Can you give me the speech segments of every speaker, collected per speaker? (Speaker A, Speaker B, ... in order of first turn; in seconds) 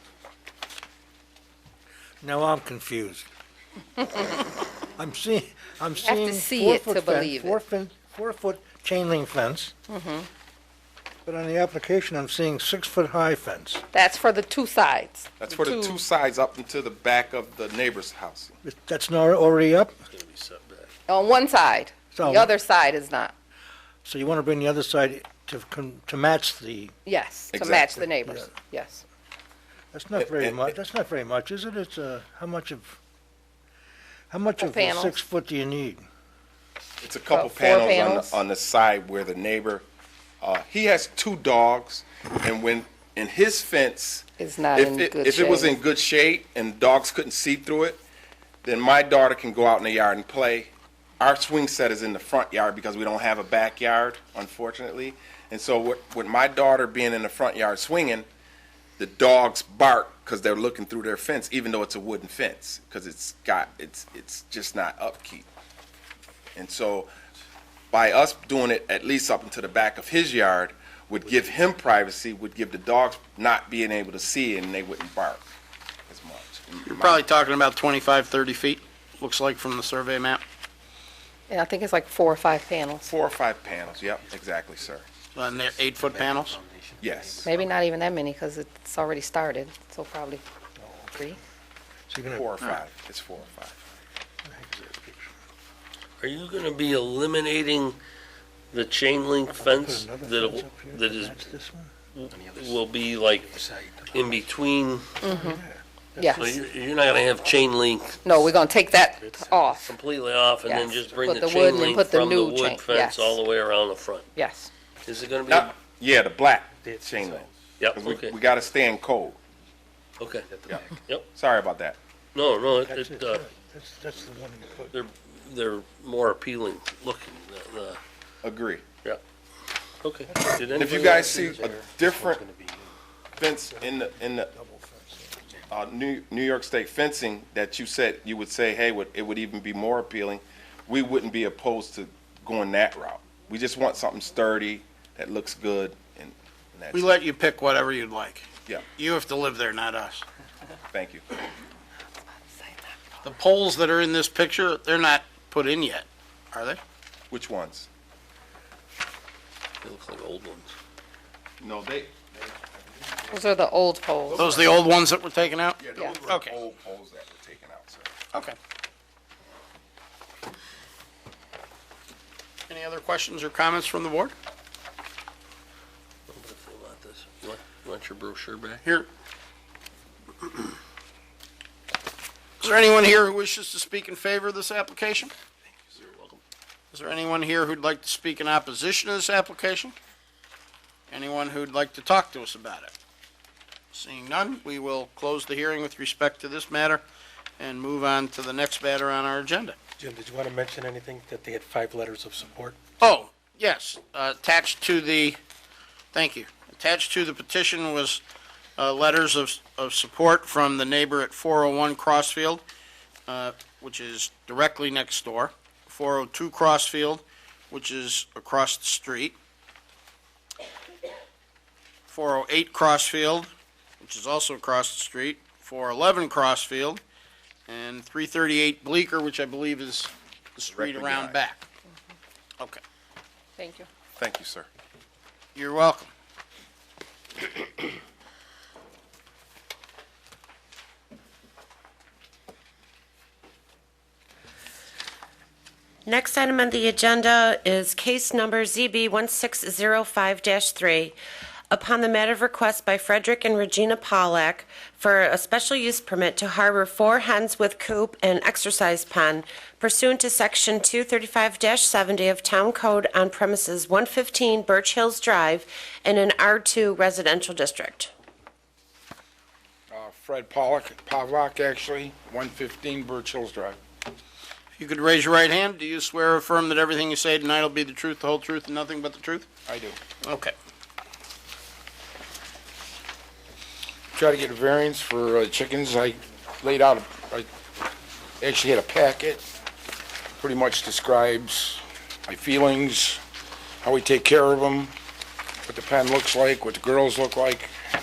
Speaker A: 2.2-3.3, 4.9-9.7, 11.2-13.8, 18.6-19.9, 22.1-22.5, 24.0-26.9, 28.1-28.5, 29.9-33.0, 34.3-36.0, 90.8-91.3, 92.1-92.5, 94.5-95.3, 99.5-101.9, 105.3-105.8, 122.8-125.0, 130.3-131.5, 134.5-135.4
Speaker B: 6.0-7.6, 9.9-10.3, 13.9-16.0, 21.1-23.3, 27.1-29.0, 34.6-35.2, 37.3-38.4, 44.4-45.8, 81.5-83.1, 87.4-90.4, 105.2-105.6, 106.2-106.5, 108.2-109.9, 110.7-113.4, 114.3-114.7, 163.3-164.5, 166.0-166.3, 233.6-233.9
Speaker C: 15.4-18.6, 27.5-28.0, 30.4-30.6, 37.0-39.9, 40.4-48.0, 48.6-58.2, 59.0-65.5, 66.5-67.1, 67.9-75.4, 76.1-77.2, 83.0-85.0, 87.0-87.6, 92.3-93.8, 115.5-119.4, 120.7-122.0, 128.4-128.8, 130.8-132.4, 133.4-134.5, 135.7-147.2, 150.9-151.2, 157.3-157.9, 161.6-163.4, 164.3-165.0, 165.8-168.1, 230.7-231.4, 234.2-234.7
Speaker D: 20.1-20.9, 96.2-98.0, 98.7-101.5, 102.1-103.6, 104.1-105.2, 106.3-108.5, 109.7-114.3, 115.0-115.7, 117.8-118.3, 120.2-120.5, 122.3-123.4, 124.9-128.0, 130.0-131.5, 159.8-160.7, 176.3-178.8, 185.9-186.4
Speaker E: 76.8-80.4, 85.3-86.6, 146.9-150.2, 153.2-156.8, 164.3-166.5, 172.7-174.3, 182.6-185.3, 186.9-189.9, 191.1-192.9, 193.9-197.0, 197.6-199.8, 203.0-205.4, 206.1-208.2, 208.8-212.6, 213.3-219.3, 222.1-227.0, 227.7-231.6, 235.5-236.1, 274.7-279.5, 280.2-280.5
Speaker F: 86.0-87.7, 102.3-102.8, 103.5-104.1, 130.8-132.9, 200.0-202.8
Speaker G: 246.1-251.2, 251.7-268.1
Speaker H: 269.9-273.8, 279.7-280.0, 284.1-287.5, 288.4-289.5, 290.4-293.2, 293.8-294.9, 295.7-297.7